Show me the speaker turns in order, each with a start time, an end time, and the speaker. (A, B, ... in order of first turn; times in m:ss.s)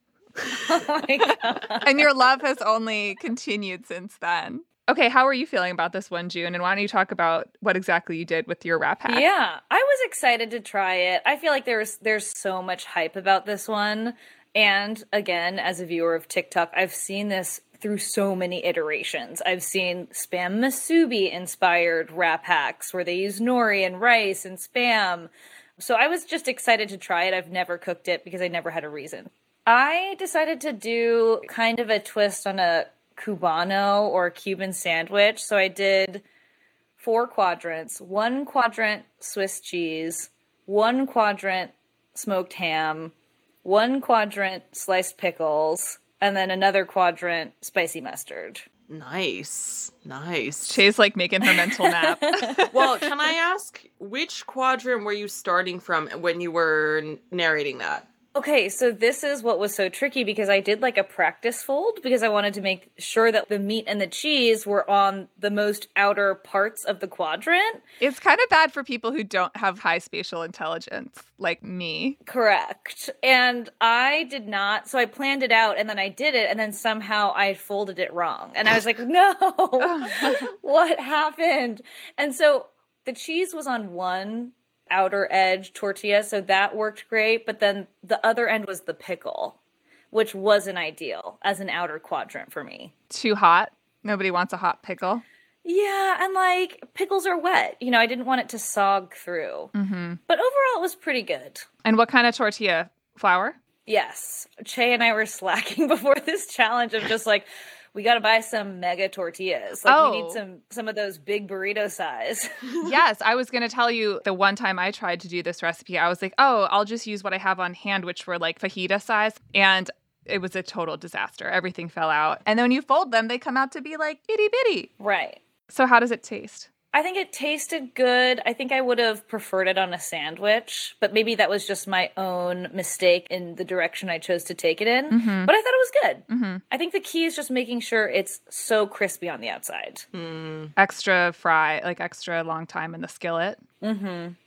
0:00.4-0:00.7 A
0:00.6-0:01.9 B
0:01.8-0:09.3 C
0:09.1-0:36.2 B
0:37.0-0:43.1 B
0:43.6-0:48.6 B
0:48.9-0:50.8 A
0:50.7-0:52.8 C
0:51.4-0:52.7 B
0:52.7-0:58.1 A
0:58.4-1:07.8 B
1:08.0-1:12.2 C
1:12.3-1:29.6 B
1:19.8-1:20.5 C
1:30.1-1:32.9 B
1:33.1-1:35.2 C
1:35.6-1:39.7 B
1:39.7-1:40.2 C
1:40.3-1:41.7 B
1:41.8-1:43.6 C
1:43.9-1:52.6 B
1:49.9-1:50.4 C
1:52.8-2:04.9 C
2:05.0-2:05.4 B
2:05.7-2:06.7 C
2:06.9-2:20.1 B
2:15.1-2:15.5 C
2:16.3-2:16.6 C
2:20.1-2:20.7 A
2:20.8-2:23.6 C
2:23.8-2:24.4 B